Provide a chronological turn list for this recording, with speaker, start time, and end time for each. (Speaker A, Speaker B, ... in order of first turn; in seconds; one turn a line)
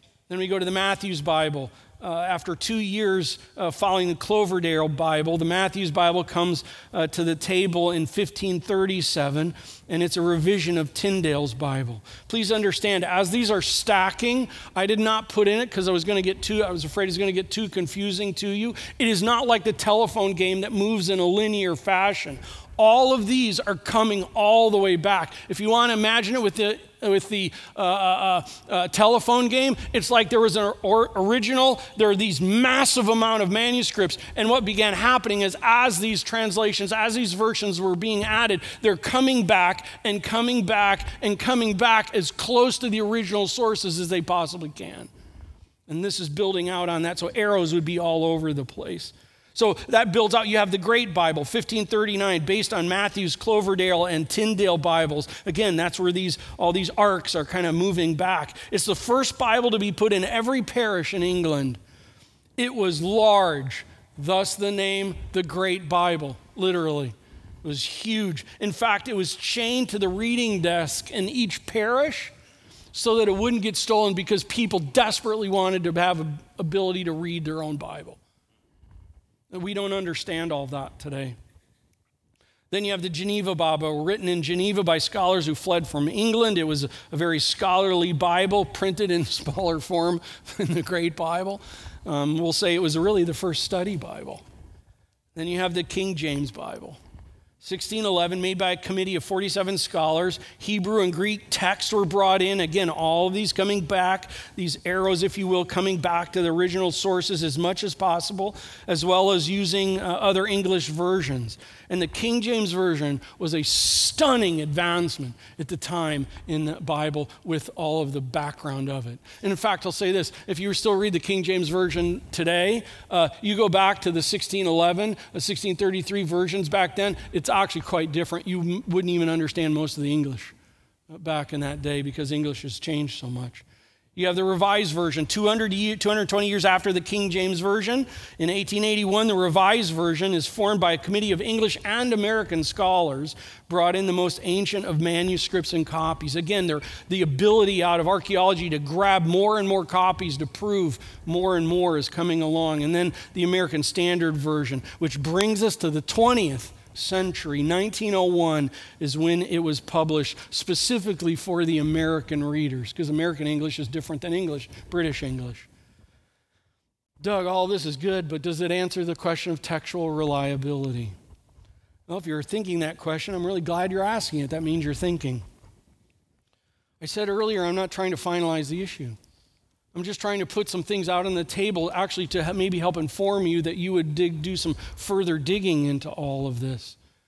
Speaker A: 0.3-45.1
Speaker A: 45.9-61.8
Speaker A: 62.6-72.3
Speaker A: 72.9-78.2
Speaker A: 79.5-81.4
Speaker A: 82.7-94.4
Speaker A: 95.3-97.0
Speaker A: 97.6-130.6
Speaker A: 131.1-165.7
Speaker A: 167.2-171.2
Speaker A: 172.1-175.4
Speaker A: 177.0-179.2
Speaker A: 179.9-187.0